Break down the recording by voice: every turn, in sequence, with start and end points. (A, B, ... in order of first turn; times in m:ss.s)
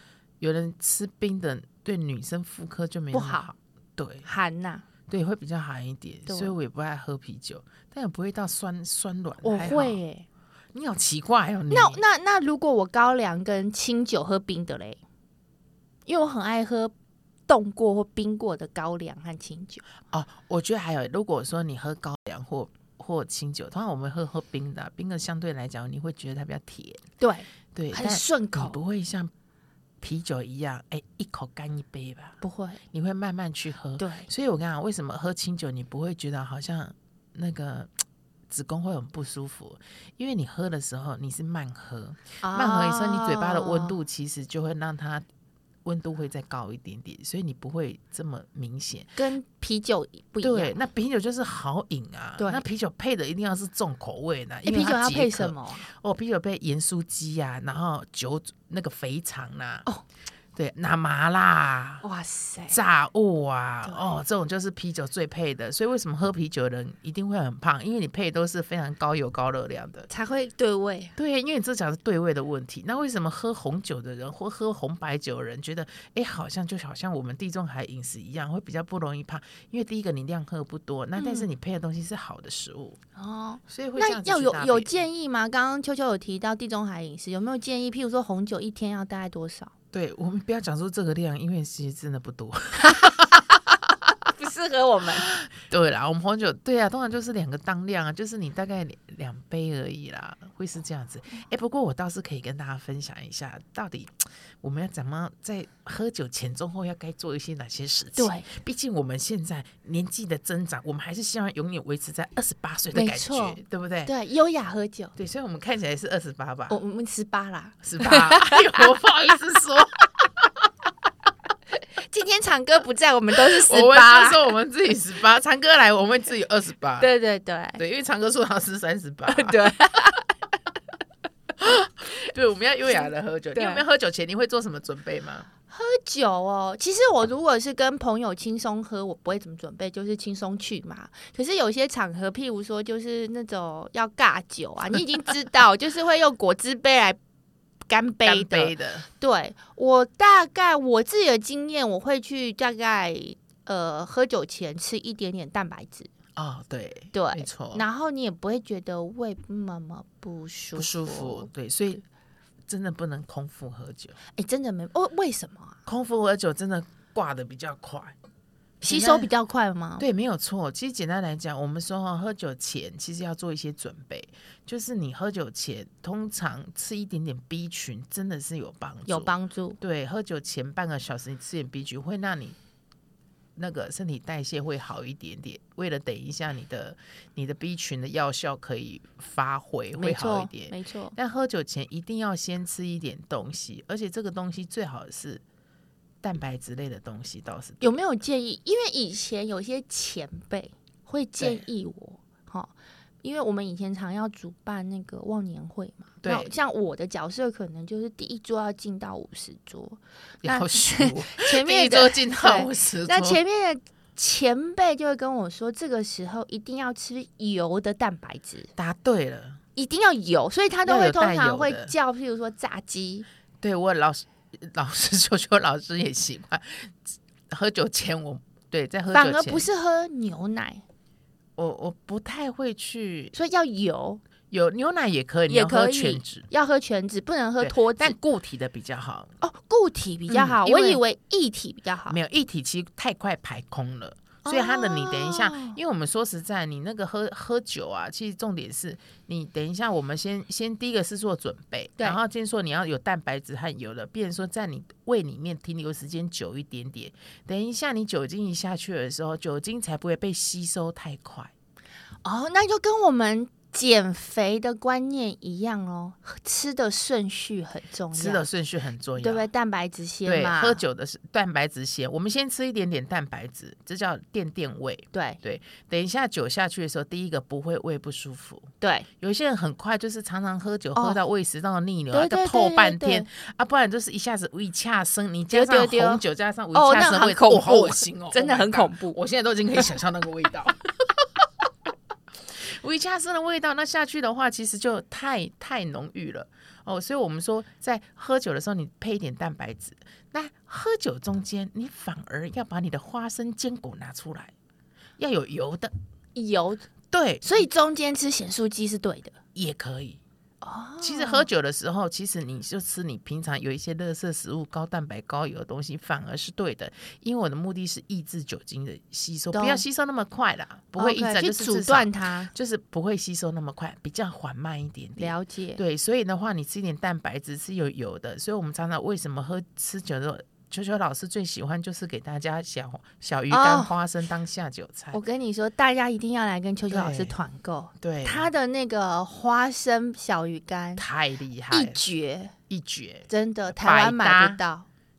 0:00.4-0:04.3 A
0:03.1-0:03.5 B
0:04.2-0:04.8 B
0:05.1-0:10.0 A
0:06.3-0:06.5 B
0:09.4-0:10.2 B
0:10.7-0:12.0 A
0:11.7-0:15.0 B
0:16.1-0:16.9 B
0:17.5-0:19.8 B
0:20.1-0:27.0 A
0:27.2-0:28.8 B
0:27.7-0:29.3 A
0:30.0-0:32.4 A
0:32.4-0:32.8 B
0:32.9-0:37.9 A
0:34.0-0:34.3 B
0:38.5-0:45.2 A
0:42.4-0:43.9 B
0:45.8-0:49.2 A
0:49.2-0:50.8 B
0:50.4-0:59.8 A
0:52.4-0:52.6 B
0:54.6-0:55.9 B
1:00.6-1:02.0 A
1:02.0-1:02.8 B
1:02.7-1:10.1 A
1:03.8-1:04.2 B
1:10.1-1:11.1 B
1:11.2-1:23.0 A
1:21.2-1:21.5 B
1:23.2-1:29.7 B
1:23.7-1:24.9 A
1:29.9-1:33.4 A
1:32.8-1:33.3 B
1:34.2-1:35.3 B
1:35.3-1:54.1 A
1:48.2-1:48.5 B
1:52.9-1:55.1 B
1:55.2-1:56.8 A
1:56.7-1:58.9 B
1:57.8-2:00.4 A
2:02.0-2:04.5 B
2:03.4-2:07.1 A
2:07.0-2:07.8 B
2:07.8-2:10.1 A
2:09.3-2:10.3 B
2:11.6-2:15.5 A
2:13.5-2:13.8 B
2:15.7-2:27.2 B
2:27.9-2:36.1 B
2:28.2-2:29.0 A
2:36.4-2:37.8 A
2:37.1-2:41.5 B
2:40.7-2:42.0 A
2:42.7-2:44.2 A
2:44.3-2:45.8 B
2:45.8-2:48.1 A
2:48.8-2:49.3 A
2:48.8-2:50.0 B
2:50.0-3:02.6 A
2:59.1-2:59.8 B
3:03.6-3:15.4 A
3:10.0-3:11.1 B
3:16.2-3:17.9 A
3:17.8-3:38.7 B
3:26.2-3:26.5 A
3:30.4-3:33.4 A
3:38.8-3:39.6 A
3:39.8-3:43.2 B
3:40.8-3:41.9 A
3:43.6-3:46.9 A
3:47.5-3:49.7 A
3:49.1-3:50.8 B
3:51.6-3:53.3 A
3:53.3-3:54.2 B
3:54.5-3:56.4 A
3:55.5-3:58.2 B
3:57.6-3:59.3 A
3:59.4-4:02.2 B
4:00.3-4:01.0 A
4:02.1-4:21.5 A
4:04.4-4:05.8 B
4:22.2-4:28.4 B
4:28.1-4:29.5 A
4:29.2-4:30.8 B
4:30.2-4:38.7 A
4:35.1-4:35.4 B
4:38.8-4:39.1 B
4:39.2-4:51.3 A
4:42.1-4:43.3 B
4:45.5-4:46.2 B
4:46.7-4:49.2 B
4:52.5-5:04.5 A
5:05.2-5:05.9 A
5:06.3-5:06.8 B
5:07.1-5:07.6 A
5:07.4-5:09.3 B
5:09.5-5:10.2 A
5:10.6-5:11.5 B
5:11.0-5:35.2 A
5:19.5-5:19.8 B
5:21.0-5:22.5 B
5:25.2-5:25.8 B
5:33.5-5:33.9 B
5:35.1-5:41.0 B
5:36.9-5:37.3 A
5:38.0-5:38.5 A
5:41.0-5:42.0 A
5:41.7-5:42.5 B
5:42.7-5:44.6 A
5:43.3-5:44.8 B